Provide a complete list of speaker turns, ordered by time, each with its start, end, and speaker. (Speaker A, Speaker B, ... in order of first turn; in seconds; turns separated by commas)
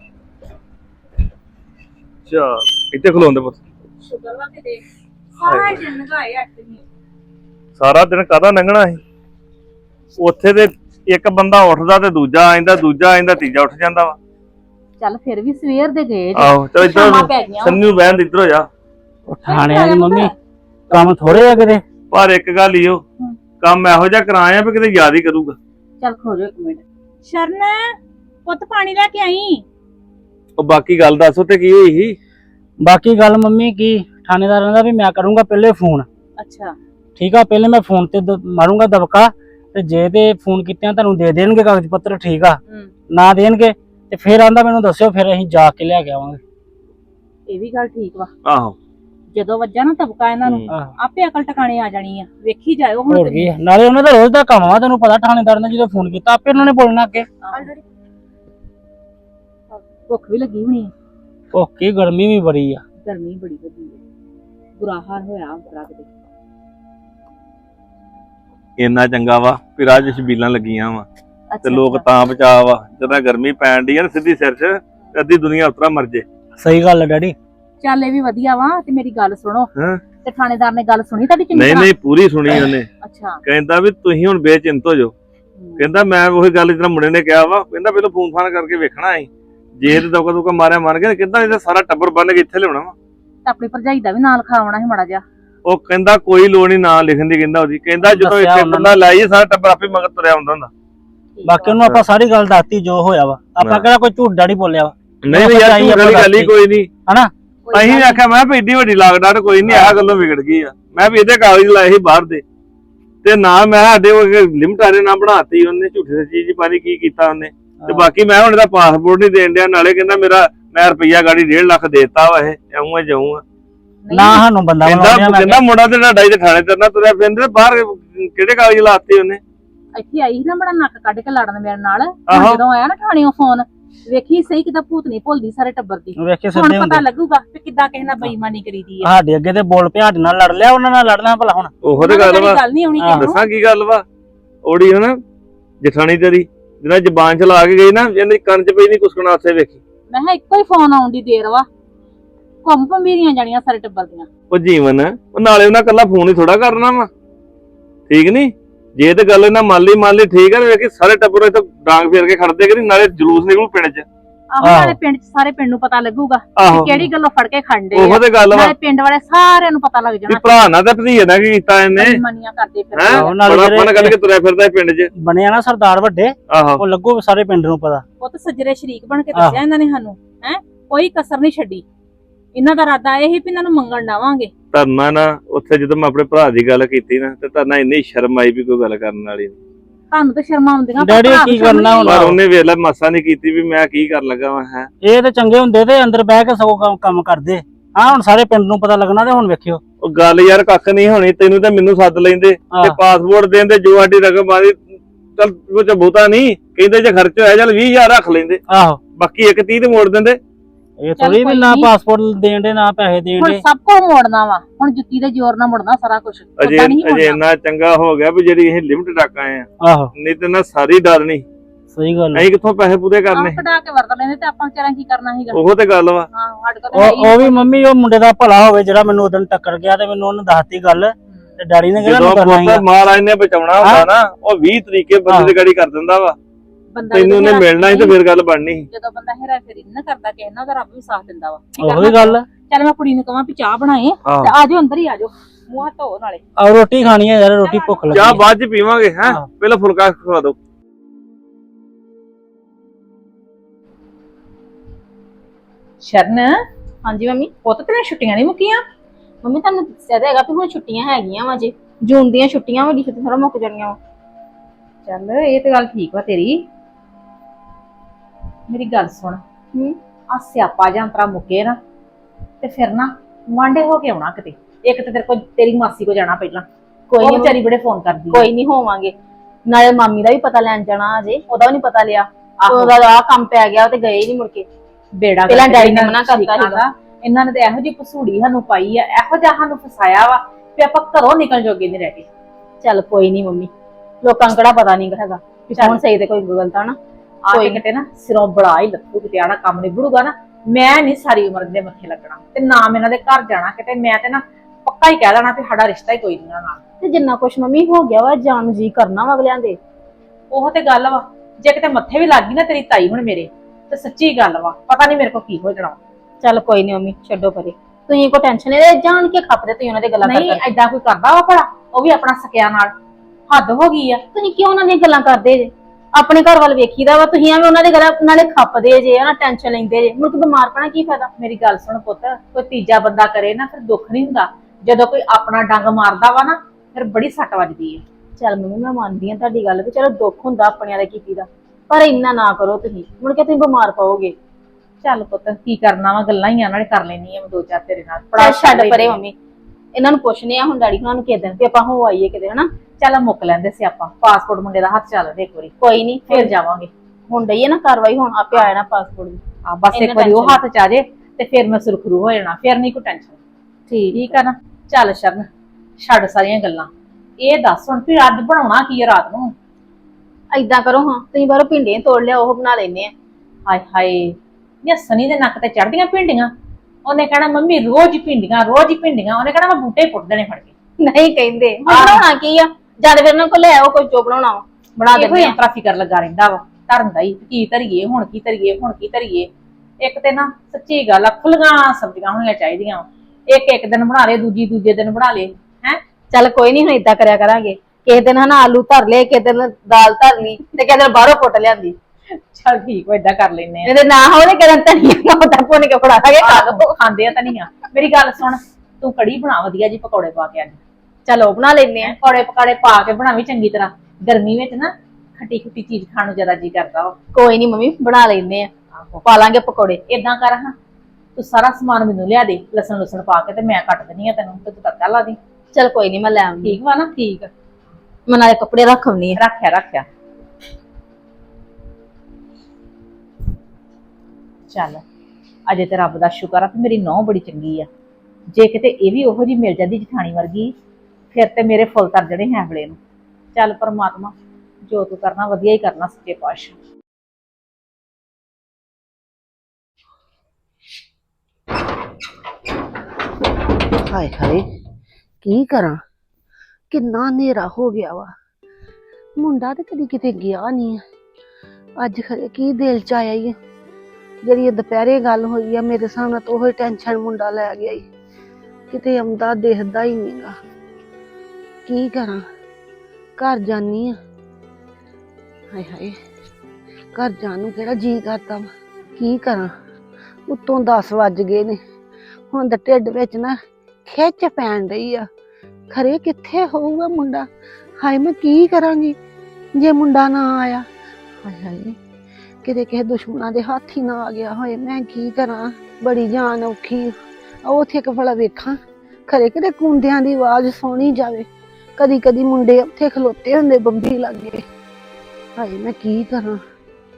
Speaker A: 2.3-3.6, Speaker B: 4.0-4.8, Speaker B: 5.4-6.8, Speaker A: 5.4-5.8, Speaker A: 7.8-9.0, Speaker A: 10.2-14.2, Speaker B: 15.0-16.5, Speaker A: 16.4-18.7, Speaker C: 16.9-17.7, Speaker D: 19.3-20.3, Speaker B: 19.5-20.3, Speaker D: 20.9-21.8, Speaker B: 20.9-21.4, Speaker A: 22.1-23.0, Speaker A: 23.6-25.6, Speaker B: 26.0-27.9, Speaker B: 28.5-29.6, Speaker A: 30.6-32.2, Speaker D: 32.8-36.1, Speaker B: 36.4-36.8, Speaker D: 37.2-42.6, Speaker D: 43.1-46.4, Speaker B: 47.5-48.3, Speaker A: 48.5-48.8, Speaker B: 49.3-53.5, Speaker A: 50.4-50.7, Speaker D: 53.1-57.3, Speaker B: 57.5-57.8, Speaker B: 59.7-60.9, Speaker D: 61.5-62.8, Speaker B: 63.0-64.0, Speaker B: 64.8-66.1, Speaker A: 68.8-71.1, Speaker B: 71.5-72.0, Speaker A: 71.6-76.2, Speaker D: 76.6-77.3, Speaker B: 77.8-79.7, Speaker A: 79.8-80.0, Speaker B: 80.2-81.9, Speaker A: 81.5-82.9, Speaker B: 82.5-83.4, Speaker A: 83.5-85.1, Speaker B: 85.6-85.9, Speaker A: 85.8-92.9, Speaker B: 93.5-95.2, Speaker A: 95.7-100.7, Speaker D: 98.0-99.0, Speaker C: 101.4-101.8, Speaker D: 101.4-106.5, Speaker A: 103.6-103.9, Speaker A: 105.2-106.9, Speaker A: 107.7-112.4, Speaker D: 109.7-109.9, Speaker A: 113.2-123.4, Speaker D: 117.8-118.1, Speaker B: 124.0-124.5, Speaker D: 124.1-125.6, Speaker A: 124.8-129.4, Speaker B: 129.9-139.1, Speaker A: 132.3-132.6, Speaker D: 136.2-137.0, Speaker D: 139.0-141.7, Speaker A: 141.8-142.6, Speaker B: 142.0-143.4, Speaker D: 143.0-143.3, Speaker A: 143.2-144.0, Speaker A: 144.6-145.2, Speaker A: 145.8-149.8, Speaker B: 150.1-151.7, Speaker B: 152.7-154.3, Speaker A: 154.5-157.1, Speaker A: 158.1-164.1, Speaker B: 164.5-170.7, Speaker D: 164.6-165.0, Speaker A: 166.6-166.9, Speaker D: 166.8-167.1, Speaker A: 167.9-168.7, Speaker A: 170.3-172.2, Speaker B: 171.9-173.3, Speaker A: 172.9-175.1, Speaker D: 173.1-174.2, Speaker D: 175.2-178.0, Speaker A: 176.5-176.8, Speaker B: 178.2-181.8, Speaker D: 179.3-179.6, Speaker B: 182.6-184.5, Speaker A: 184.7-189.5, Speaker B: 190.1-192.3, Speaker D: 191.0-192.4, Speaker A: 192.0-194.9, Speaker D: 195.0-199.8, Speaker A: 200.0-204.8, Speaker D: 202.7-203.0, Speaker A: 205.4-208.6, Speaker D: 208.7-209.0, Speaker A: 209.2-210.4, Speaker D: 211.0-213.6, Speaker B: 211.2-211.9, Speaker B: 213.4-217.4, Speaker A: 216.6-221.4, Speaker D: 219.8-220.1, Speaker D: 221.9-222.5, Speaker A: 222.3-223.6, Speaker B: 223.3-225.6, Speaker A: 225.5-226.3, Speaker B: 226.3-227.5, Speaker D: 226.9-232.8, Speaker A: 232.0-236.4, Speaker D: 233.8-234.1, Speaker D: 235.3-235.5, Speaker B: 236.9-238.2, Speaker A: 237.1-238.8, Speaker B: 238.9-246.4, Speaker D: 241.8-242.5, Speaker A: 244.3-244.5, Speaker D: 246.6-248.4, Speaker B: 247.6-248.4, Speaker A: 248.1-250.6, Speaker B: 256.0-256.5, Speaker C: 257.1-257.5, Speaker B: 257.6-258.8, Speaker C: 259.4-264.0, Speaker B: 265.1-266.6, Speaker B: 268.7-269.4, Speaker B: 270.3-271.8, Speaker B: 272.6-276.7, Speaker C: 277.1-277.6, Speaker B: 277.2-278.5, Speaker C: 278.3-279.1, Speaker C: 279.7-284.7, Speaker B: 282.6-283.0, Speaker B: 285.2-292.3, Speaker C: 285.5-286.8, Speaker C: 292.8-293.7, Speaker C: 294.2-297.0, Speaker B: 295.8-296.0, Speaker B: 297.5-306.8, Speaker C: 297.5-297.8, Speaker C: 307.0-309.8, Speaker B: 310.5-316.0, Speaker C: 316.4-320.6, Speaker B: 320.2-322.9, Speaker B: 323.5-324.2, Speaker C: 324.3-331.3, Speaker B: 331.4-338.0, Speaker C: 338.4-344.4, Speaker B: 345.0-349.2, Speaker C: 348.4-349.4, Speaker C: 349.9-352.7, Speaker B: 353.0-355.7, Speaker C: 355.8-356.5, Speaker B: 356.3-356.9, Speaker C: 357.3-359.4, Speaker B: 359.7-363.4, Speaker C: 359.9-360.6, Speaker B: 363.9-365.5, Speaker C: 364.0-364.4, Speaker B: 366.0-366.9, Speaker B: 367.4-369.5, Speaker C: 370.5-373.1, Speaker B: 373.7-376.5, Speaker B: 377.1-380.7, Speaker C: 381.0-385.6, Speaker B: 381.9-382.2, Speaker B: 385.1-389.5, Speaker B: 390.0-396.0, Speaker C: 396.3-401.9, Speaker B: 402.5-403.9, Speaker C: 403.9-406.9, Speaker B: 406.4-410.8, Speaker C: 411.3-412.1, Speaker B: 412.0-417.1, Speaker C: 417.3-418.7, Speaker B: 419.0-419.3, Speaker C: 419.2-420.0, Speaker B: 420.1-420.7, Speaker B: 421.4-425.4, Speaker C: 425.7-426.8, Speaker B: 426.6-427.5, Speaker C: 428.3-429.4, Speaker B: 429.4-430.1, Speaker B: 434.7-435.0, Speaker B: 435.7-437.9, Speaker B: 438.5-440.7, Speaker B: 441.3-443.0, Speaker B: 443.6-444.3, Speaker B: 444.9-446.8, Speaker E: 454.0-454.6, Speaker E: 455.4-456.0, Speaker E: 456.9-458.3, Speaker E: 459.4-461.0, Speaker E: 462.0-463.6, Speaker E: 464.4-468.0, Speaker E: 468.9-470.6, Speaker E: 471.9-472.4, Speaker E: 473.4-474.2, Speaker E: 475.7-476.2, Speaker E: 477.1-479.7, Speaker E: 480.5-481.8, Speaker E: 482.5-485.3, Speaker E: 485.9-487.5, Speaker E: 488.0-489.2, Speaker E: 489.8-490.9, Speaker E: 491.4-492.0, Speaker E: 492.6-504.6, Speaker E: 505.6-506.6